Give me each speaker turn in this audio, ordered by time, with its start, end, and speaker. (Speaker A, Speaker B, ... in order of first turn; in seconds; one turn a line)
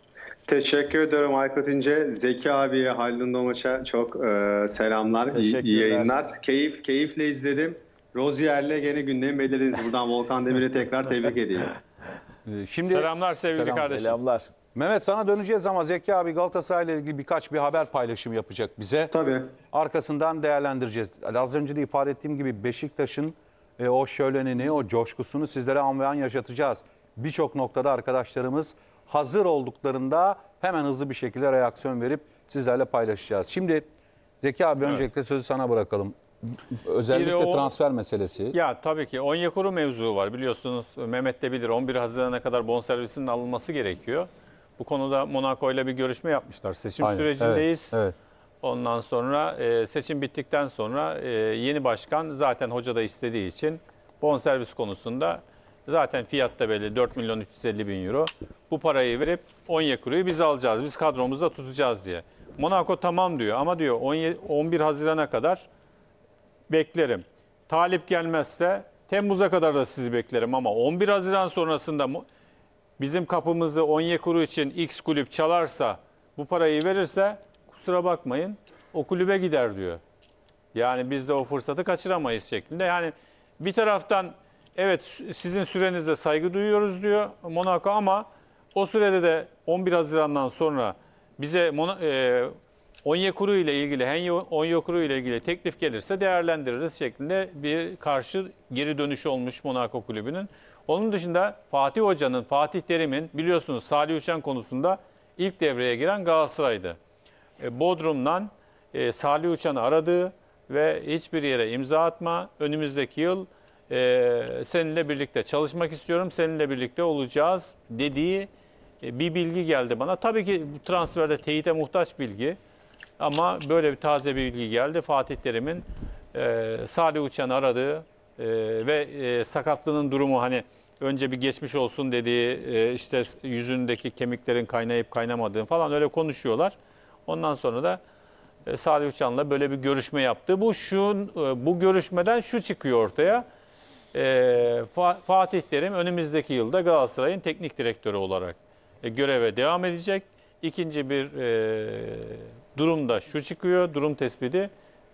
Speaker A: 0.5-11.7
Speaker B: 12.5-14.2
Speaker C: 12.9-14.2
Speaker B: 14.7-19.1
Speaker A: 19.1-19.5
Speaker B: 19.7-33.8
Speaker B: 34.4-38.6
Speaker C: 34.8-35.0
Speaker C: 37.1-37.7
Speaker C: 38.5-48.0
Speaker B: 47.0-48.1
Speaker C: 48.6-65.7
Speaker C: 66.7-72.2
Speaker C: 73.0-80.0
Speaker C: 80.7-92.5
Speaker C: 93.0-107.0
Speaker C: 107.6-118.5
Speaker C: 119.0-122.6
Speaker C: 123.2-136.8
Speaker C: 137.3-138.0
Speaker C: 138.7-143.4
Speaker C: 144.1-154.7